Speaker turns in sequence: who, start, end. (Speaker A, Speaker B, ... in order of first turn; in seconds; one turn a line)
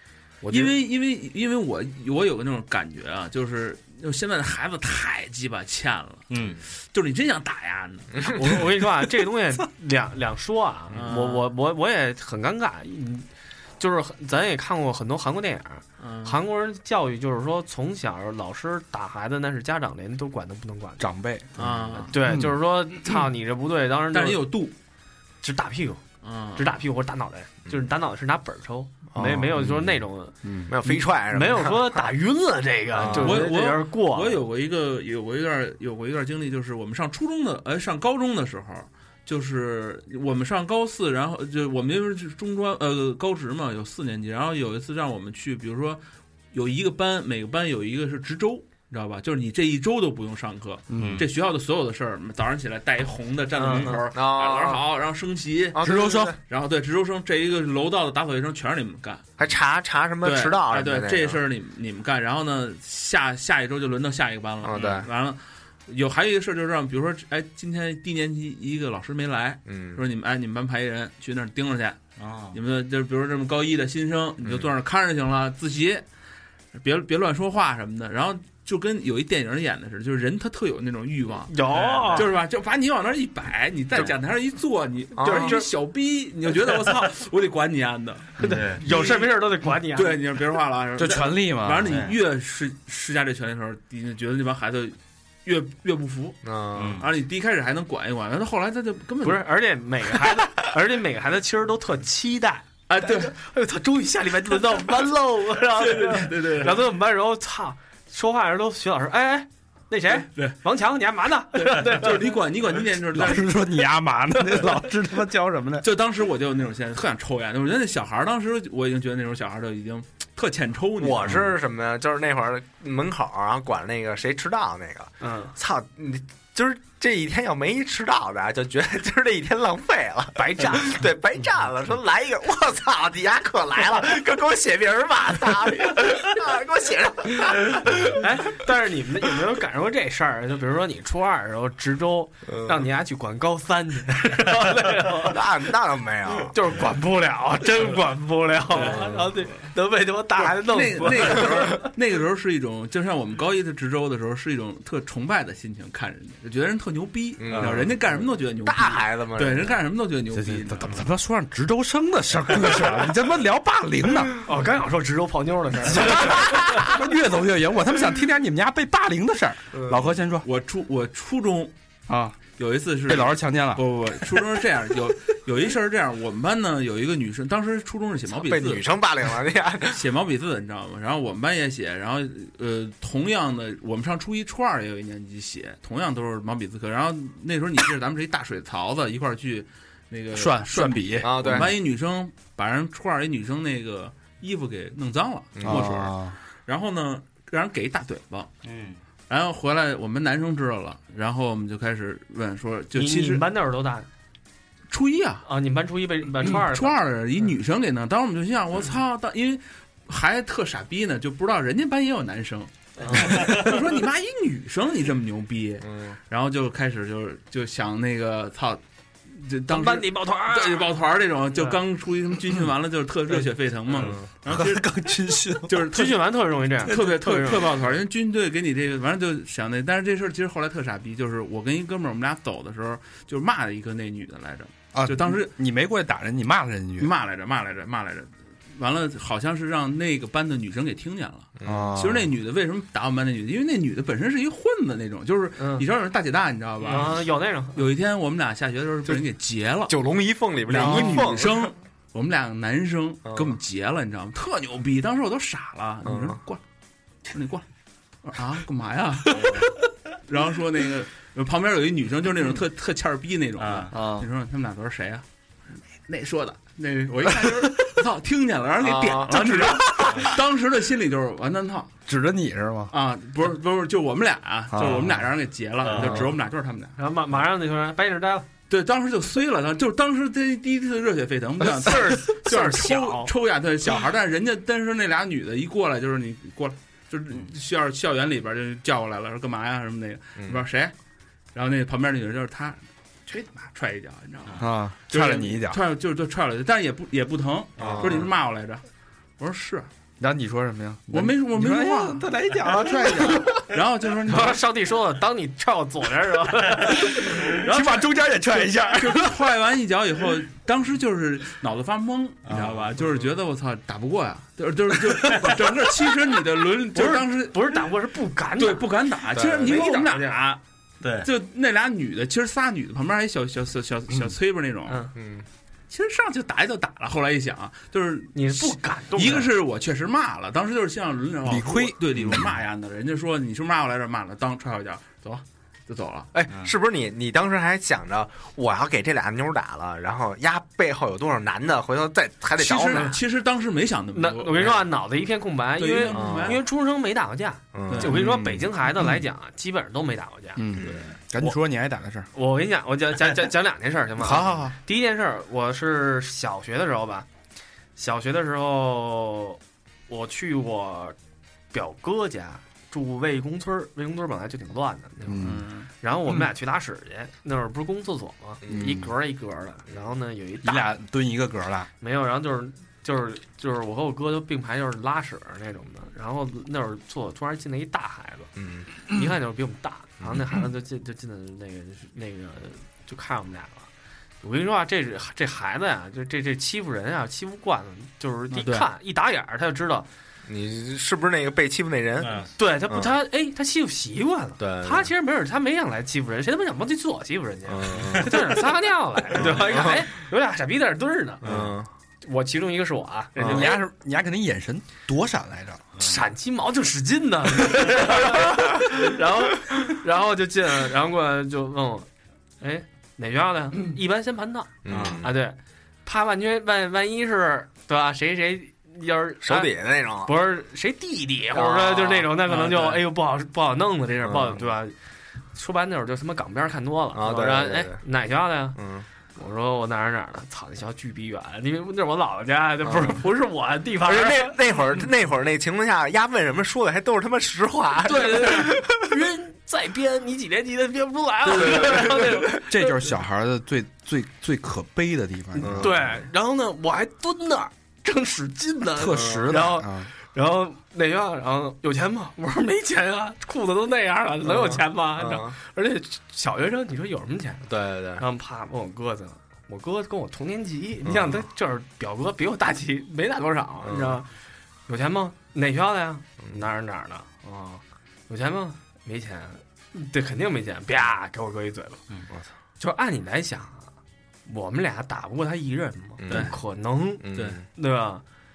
Speaker A: 0.4-0.8
Speaker B: 0.5-6.3
Speaker C: 6.3-6.6
Speaker B: 6.8-8.5
Speaker A: 8.3-21.1
Speaker B: 10.9-11.5
Speaker B: 16.0-16.4
Speaker D: 21.0-21.5
Speaker B: 21.6-22.1
Speaker E: 21.6-22.1
Speaker A: 22.1-24.5
Speaker D: 22.2-22.6
Speaker B: 24.1-24.7
Speaker A: 25.4-26.0
Speaker B: 26.2-26.8
Speaker A: 26.6-34.4
Speaker E: 29.1-29.5
Speaker D: 29.2-30.8
Speaker E: 30.7-32.0
Speaker E: 33.0-33.5
Speaker B: 33.0-46.0
Speaker B: 46.5-55.8
Speaker D: 50.9-51.3
Speaker C: 51.0-51.3
Speaker A: 53.6-54.0
Speaker E: 54.1-54.8
Speaker E: 55.8-56.4
Speaker D: 55.8-56.4
Speaker B: 56.5-59.3
Speaker E: 59.4-61.4
Speaker B: 60.2-72.0
Speaker E: 64.6-65.1
Speaker E: 69.7-70.0
Speaker C: 72.2-72.6
Speaker B: 72.5-76.0
Speaker B: 76.7-89.3
Speaker A: 81.5-82.3
Speaker E: 85.2-85.6
Speaker A: 85.2-85.7
Speaker A: 88.4-90.2
Speaker C: 88.4-88.8
Speaker B: 89.9-96.4
Speaker D: 91.0-92.0
Speaker C: 91.9-92.2
Speaker E: 96.4-97.0
Speaker C: 96.8-97.1
Speaker B: 97.0-99.5
Speaker A: 99.2-112.4
Speaker B: 102.9-103.3
Speaker B: 105.7-106.8
Speaker B: 110.2-110.6
Speaker B: 111.6-113.5
Speaker D: 113.1-115.9
Speaker B: 115.8-121.4
Speaker E: 121.0-138.2
Speaker A: 125.2-125.5
Speaker A: 130.4-131.0
Speaker A: 137.8-145.7
Speaker E: 142.5-142.8
Speaker E: 145.1-146.6
Speaker A: 146.3-151.9
Speaker B: 148.7-149.7
Speaker E: 148.8-149.3
Speaker B: 150.4-161.0
Speaker E: 157.4-159.8
Speaker D: 160.3-164.3
Speaker A: 164.4-166.9
Speaker D: 165.9-170.5
Speaker E: 169.7-170.1
Speaker B: 170.4-171.7
Speaker D: 172.1-172.4
Speaker B: 172.6-178.8
Speaker D: 173.1-173.8
Speaker E: 178.3-180.0
Speaker B: 179.9-196.2
Speaker D: 190.3-191.7
Speaker E: 191.2-191.7
Speaker E: 195.6-196.0
Speaker D: 195.6-196.4
Speaker B: 196.7-198.5
Speaker C: 198.7-199.0
Speaker B: 199.3-203.4
Speaker A: 202.9-204.1
Speaker B: 204.9-205.4
Speaker A: 205.4-207.0
Speaker B: 206.4-224.9
Speaker A: 213.0-213.6
Speaker E: 215.8-216.2
Speaker A: 219.7-220.9
Speaker A: 221.5-221.8
Speaker E: 223.9-224.3
Speaker D: 224.5-225.9
Speaker B: 225.7-226.2
Speaker A: 225.9-227.7
Speaker B: 226.8-235.5
Speaker D: 234.9-237.1
Speaker B: 237.0-247.2
Speaker E: 241.6-241.9
Speaker D: 241.7-242.3
Speaker A: 245.6-245.9
Speaker A: 246.8-247.8
Speaker B: 247.8-250.1
Speaker E: 249.9-251.7
Speaker B: 250.7-256.6
Speaker A: 250.8-251.3
Speaker E: 253.2-253.6
Speaker E: 256.1-256.4
Speaker B: 257.3-257.6
Speaker B: 258.2-265.2
Speaker C: 263.6-264.0
Speaker D: 263.9-264.3
Speaker B: 266.1-271.9
Speaker E: 268.8-269.6
Speaker A: 269.3-270.3
Speaker D: 272.1-272.9
Speaker B: 272.9-277.0
Speaker D: 274.7-275.3
Speaker C: 275.9-276.2
Speaker A: 277.0-278.5
Speaker B: 278.7-290.9
Speaker A: 281.7-283.3
Speaker E: 290.4-290.6
Speaker B: 291.5-298.9
Speaker D: 294.6-295.8
Speaker E: 297.8-298.3
Speaker C: 297.8-298.1
Speaker B: 299.4-299.9
Speaker D: 300.2-303.6
Speaker B: 301.1-304.6
Speaker A: 304.3-307.6
Speaker D: 307.1-309.4
Speaker B: 307.6-308.0
Speaker B: 308.9-317.9
Speaker C: 312.5-312.8
Speaker A: 316.9-318.9
Speaker B: 318.6-320.6
Speaker E: 319.3-319.8
Speaker A: 319.4-320.4
Speaker C: 321.0-321.3
Speaker B: 321.2-325.1
Speaker A: 324.9-325.1
Speaker E: 325.1-325.5
Speaker B: 325.9-336.3
Speaker A: 328.3-329.5
Speaker D: 331.4-332.6
Speaker E: 336.3-343.1
Speaker B: 342.6-344.9
Speaker A: 342.9-343.2
Speaker A: 344.1-350.7
Speaker B: 345.8-346.6
Speaker E: 346.1-346.6
Speaker E: 347.7-348.2
Speaker B: 347.9-348.2
Speaker D: 348.0-349.2
Speaker D: 350.6-352.3
Speaker E: 350.8-351.1
Speaker A: 352.3-357.3
Speaker D: 354.2-354.8
Speaker A: 358.0-361.2
Speaker A: 361.7-370.9
Speaker D: 365.2-365.7
Speaker B: 365.4-365.9
Speaker E: 368.6-369.0
Speaker D: 368.7-369.1
Speaker D: 370.6-371.9
Speaker A: 372.0-383.9
Speaker E: 378.6-378.9
Speaker A: 384.4-390.1
Speaker B: 388.5-388.9
Speaker E: 390.5-393.1
Speaker C: 392.2-392.5
Speaker A: 392.6-401.6
Speaker E: 394.6-395.1
Speaker E: 397.7-398.6
Speaker E: 399.3-400.1
Speaker E: 401.4-401.9
Speaker A: 402.2-403.8
Speaker E: 403.4-403.7
Speaker D: 403.4-405.9
Speaker A: 406.0-412.1
Speaker A: 412.6-419.7
Speaker E: 414.9-415.3
Speaker C: 414.9-415.2
Speaker E: 419.4-420.3
Speaker A: 420.2-425.0
Speaker E: 421.5-422.3
Speaker B: 422.5-423.0
Speaker E: 424.2-424.7
Speaker A: 425.5-428.8
Speaker E: 427.1-428.0
Speaker E: 428.8-429.1
Speaker A: 429.4-434.6
Speaker E: 432.8-433.2
Speaker E: 434.0-439.0
Speaker A: 438.1-442.9
Speaker E: 441.5-442.4
Speaker D: 442.5-446.0
Speaker A: 445.6-464.3
Speaker E: 445.6-446.1
Speaker D: 449.0-450.1
Speaker E: 449.1-449.5
Speaker E: 454.4-455.6
Speaker E: 457.7-458.2
Speaker E: 461.1-461.4
Speaker E: 463.8-464.2
Speaker A: 464.9-472.0
Speaker A: 472.8-473.9
Speaker A: 474.5-478.2
Speaker E: 476.2-476.6
Speaker B: 476.3-476.5
Speaker E: 477.2-477.6